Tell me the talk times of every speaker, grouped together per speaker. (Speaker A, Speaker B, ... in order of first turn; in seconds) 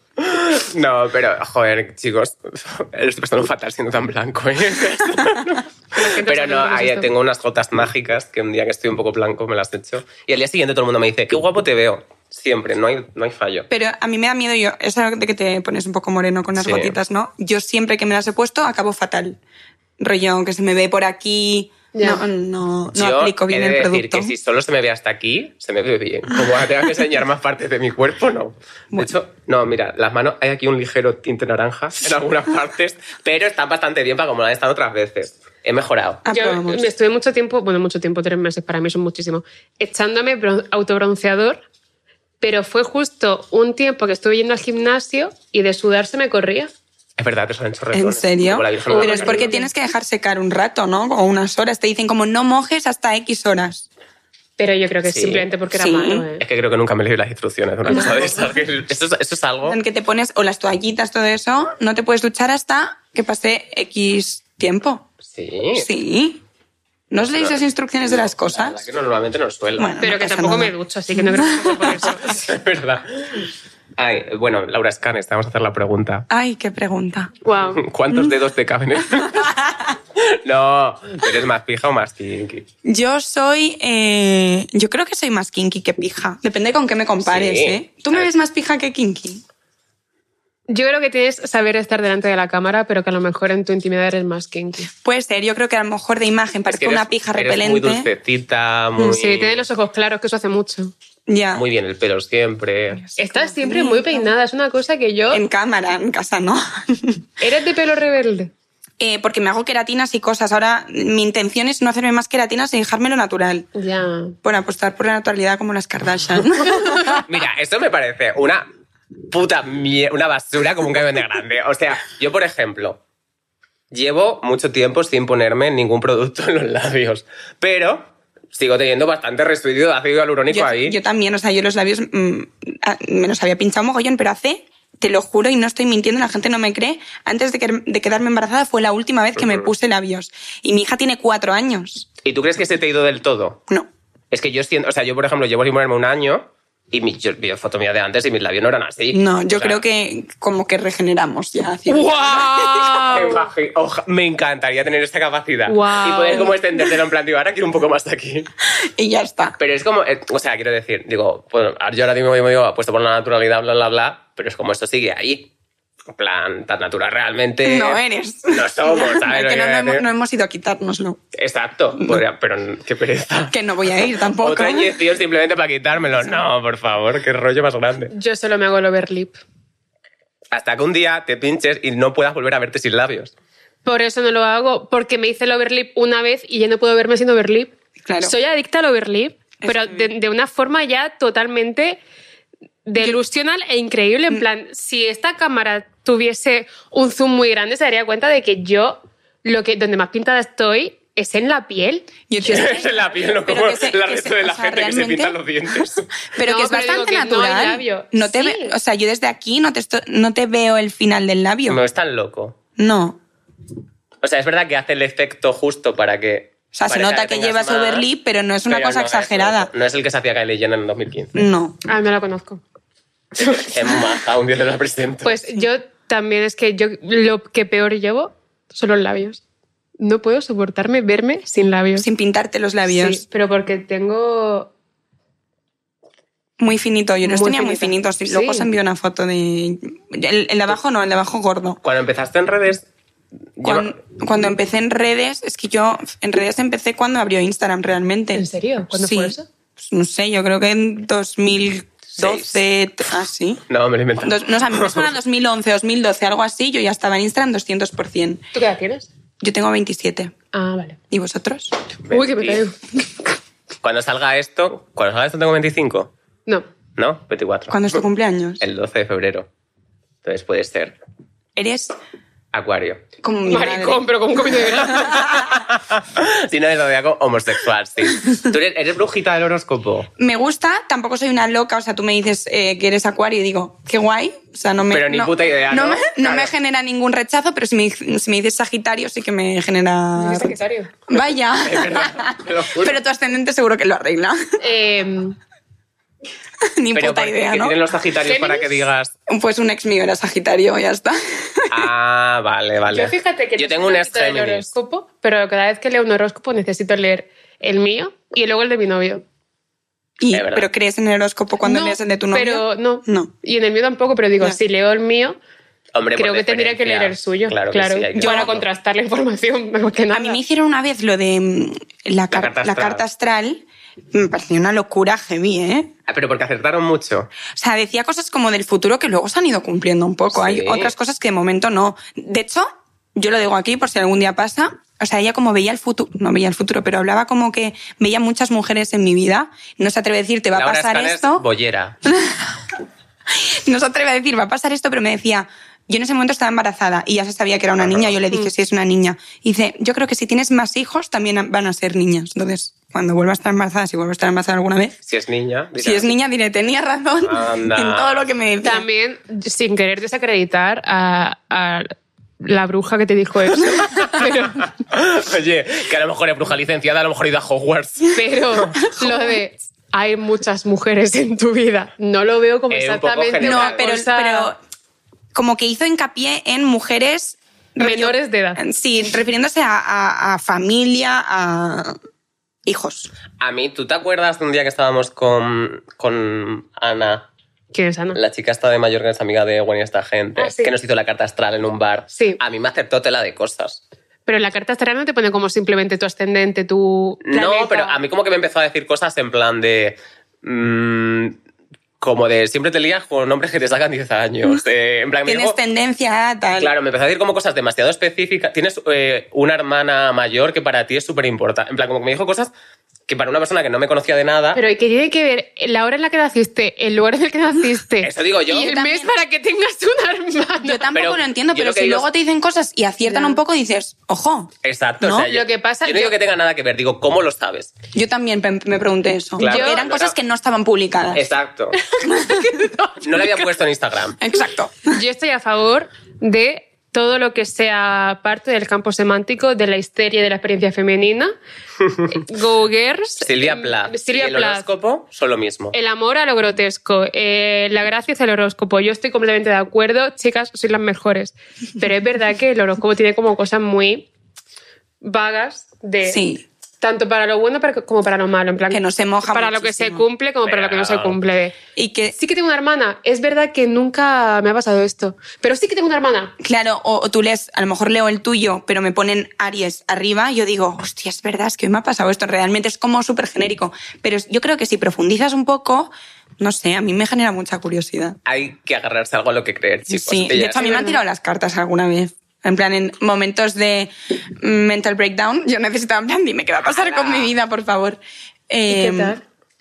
Speaker A: 0.2-13.7, 16.6-17.0, 22.9-36.2, 47.2-49.5, 55.1-55.5, 56.4-59.8, 65.2-65.9, 67.2-70.0, 72.3-76.3, 77.8-79.6, 80.2-82.7, 87.2-88.3, 96.7-99.7, 101.5-103.0, 117.1-118.7, 119.3-123.0, 123.9-130.9, 139.4-139.7, 142.2-143.6, 144.3-149.8, 153.1-158.5, 159.6-165.5, 166.1-170.0, 171.3-178.1, 180.5-183.3, 202.4-206.1, 211.7-212.6, 214.2-218.1, 218.7-221.4, 223.4-225.4, 241.8-242.8, 243.6-244.0, 252.1-252.6, 253.7-255.1, 262.0-262.6, 263.8-266.1, 266.9-268.0, 268.6-269.5, 270.2-271.0, 272.5-273.0, 275.2-280.1, 284.9-286.5, 291.6-293.0, 296.9-299.1, 301.7-304.7, 310.3-310.7, 315.9-318.6, 322.3-323.0, 326.1-327.3, 330.3-330.9, 340.5-342.0, 347.8-348.2, 355.0-356.1, 357.2-358.2, 363.7-368.7, 372.7-373.9, 383.4-387.3, 388.1-393.8, 397.2-401.4, 402.0-405.6, 406.6-412.5, 413.1-414.6, 418.0-418.7, 420.9-422.1, 424.6-427.7, 429.4-430.1, 431.1-431.8, 433.0-434.2, 441.8-442.2, 443.2-445.7, 460.4-461.2, 478.2-480.8, 486.6-487.3
Speaker B: 5.9-7.1, 21.9-22.2, 36.3-41.6, 42.4-46.7, 48.9-49.7, 54.6-56.4, 70.0-72.5, 77.4-77.8, 90.7-94.9, 99.0-100.9, 103.2-105.4, 107.4-108.5, 113.7-114.3, 151.9-153.4, 155.7-156.6, 178.1-179.4, 183.8-192.0, 192.8-202.1, 206.4-208.8, 221.8-222.6, 225.2-229.4, 230.0-232.1, 232.8-234.7, 237.2-238.7, 248.3-249.4, 258.5-259.1, 260.5-261.0, 262.1-263.1, 273.5-275.4, 290.1-290.9, 294.6-295.4, 298.2-298.9, 302.9-309.2, 311.6-315.4, 316.1-320.4, 358.6-364.6, 368.1-374.5, 377.8-378.6, 387.7-388.2, 390.4-390.7, 392.1-392.4, 394.2-398.0, 414.5-420.9, 423.0-423.4, 425.2-426.1, 429.4-429.8, 431.9-433.5, 434.9-441.3, 442.1-444.7, 445.7-454.1, 455.0-456.2, 456.8-461.6, 462.1-466.3, 480.6-481.0, 488.7-489.2
Speaker C: 13.7-19.4, 20.0-24.3, 36.2-36.9, 47.9-53.9, 55.7-56.3, 57.9-58.5, 59.6-65.1, 65.7-66.4, 67.1-68.8, 69.8-71.9, 76.3-77.3, 79.2-79.9, 82.8-89.4, 95.0-98.1, 101.3-101.6, 103.0-104.3, 105.3-107.2, 109.0-113.7, 114.4-117.2, 130.5-142.1, 149.1-153.2, 158.8-159.6, 167.6-171.2, 173.5-175.0, 188.0-188.3, 189.6-190.1, 202.3-211.8, 212.8-213.2, 216.7-219.7, 221.3-221.8, 232.0-233.2, 236.6-241.8, 243.6-253.6, 254.2-258.4, 259.4-260.3, 261.1-261.8, 267.7-268.6, 271.6-271.9, 273.2-274.0, 274.9-275.5, 280.2-290.6, 291.1-294.4, 296.8-297.8, 299.3-301.9, 310.2-313.3, 318.1-318.6, 320.1-325.9, 327.5-341.4, 342.0-342.8, 343.3-355.0, 355.8-358.8, 368.7-369.4, 373.4-374.6, 375.3-381.9, 382.6-383.1, 405.2-406.7, 418.5-419.2, 420.6-425.3, 427.9-431.2, 432.1-432.5, 434.2-434.9, 456.0-456.4, 458.7-460.1, 461.8-462.1, 466.4-478.2, 479.9-489.2